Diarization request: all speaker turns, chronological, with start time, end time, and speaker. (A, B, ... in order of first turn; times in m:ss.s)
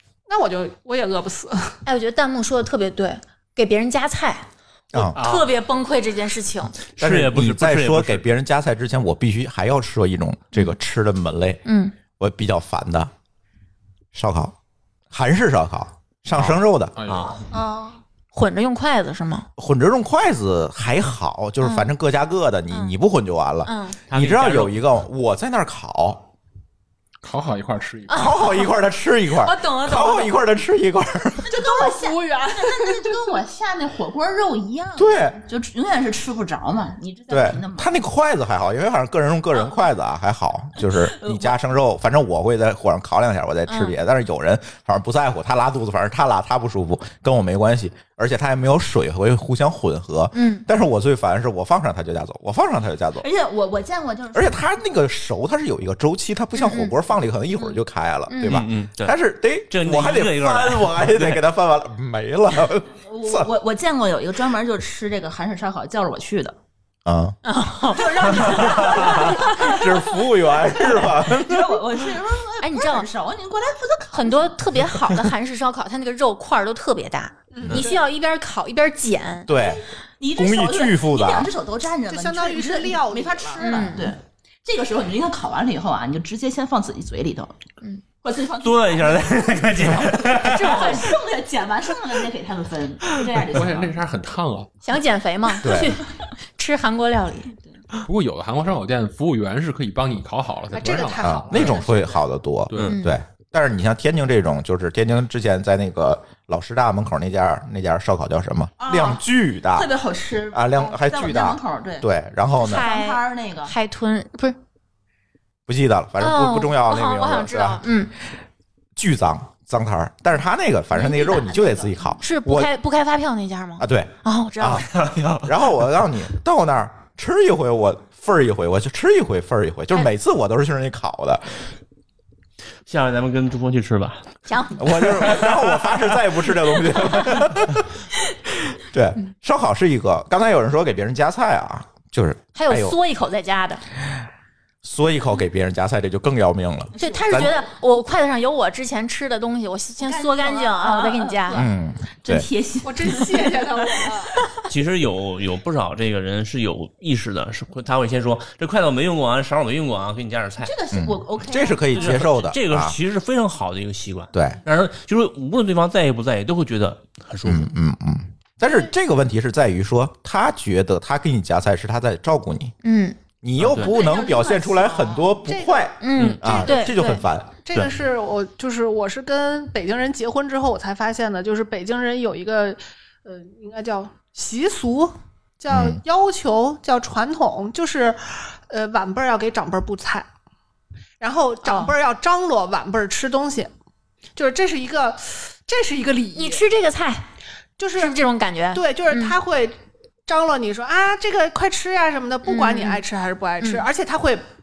0:00.3-0:01.8 A
0:01.8-0:06.8 B
0:05.2-0:05.5 C
0:07.0-0:08.2 C
0:07.0-0:11.6 D
0:11.6-0:11.9 B
0:12.2-0:13.1 D
0:14.1-0:14.5 D
0:15.1-0:16.9 D
0:17.0-0:17.4 E
0:17.0-0:17.4 C
0:17.5-0:18.0 A
0:18.3-0:19.5 B
0:19.6-0:26.2 D
0:21.6-0:21.9 B
0:23.6-0:24.0 B
0:24.1-0:24.8 C
0:27.2-0:28.3 E
0:28.1-0:28.6 B
0:28.1-0:31.5 D
0:29.3-0:30.4 B
0:31.4-0:37.9 F
0:31.5-0:33.3 A
0:35.0-0:35.4 D
0:37.3-0:53.2 D
0:40.8-0:41.6 F
0:43.7-0:43.9 B
0:50.3-0:50.6 B
0:53.2-0:54.6 F
0:54.3-1:03.5 D
0:56.5-0:56.9 B
0:58.3-0:58.6 B
0:58.4-0:59.2 C
0:59.7-1:01.4 C
1:03.0-1:06.6 F
1:07.0-1:07.4 D
1:07.4-1:09.8 B
1:07.9-1:14.6 F
1:08.9-1:11.9 D
1:12.6-1:13.1 B
1:14.1-1:19.5 B
1:17.5-1:18.0 A
1:19.5-1:19.8 D
1:19.5-1:27.6 F
1:20.3-1:21.5 D
1:22.1-1:23.8 A
1:23.6-1:24.1 B
1:28.2-1:34.0 F
1:28.6-1:31.0 C
1:30.3-1:31.2 B
1:33.5-1:34.7 E
1:34.8-1:37.5 B
1:35.6-1:36.0 D
1:38.0-1:41.8 E
1:40.7-1:42.2 A
1:41.2-1:49.9 D
1:42.8-1:43.2 B
1:48.8-1:52.1 F
1:50.5-1:52.9 D
1:52.6-1:54.6 B
1:52.6-1:53.7 F
1:55.7-1:57.8 D
1:56.2-1:58.1 B
1:59.0-2:02.7 D
2:00.9-2:04.9 B
2:03.8-2:04.9 D
2:04.9-2:05.6 C
2:05.4-2:11.7 D
2:12.9-2:14.4 C
2:14.5-2:15.1 B
2:14.8-2:18.0 D
2:15.1-2:15.7 C
2:18.9-2:23.0 D
2:22.5-2:23.8 B
2:24.8-2:27.5 D
2:26.9-2:27.6 F
2:27.0-2:31.6 B
2:30.0-2:31.7 F
2:31.5-2:32.5 D
2:32.2-2:34.6 F
2:32.8-2:34.3 A
2:34.7-2:40.7 C
2:40.6-2:42.3 F
2:40.9-2:43.0 D
2:41.9-2:47.7 C
2:44.3-2:44.6 D
2:47.4-2:52.7 D
2:52.8-2:53.2 B
2:53.4-2:57.5 D
2:53.6-2:53.9 C
2:53.7-2:55.4 F
2:55.4-3:10.3 A
2:56.0-2:57.2 B
3:05.7-3:06.0 D
3:11.2-3:13.7 A
3:11.6-3:11.9 B
3:14.4-3:16.6 A
3:16.3-3:17.2 B
3:17.8-3:18.2 A
3:17.9-3:19.4 B
3:18.7-3:19.8 A
3:20.3-3:24.4 A
3:22.4-3:23.0 B
3:23.6-3:23.8 B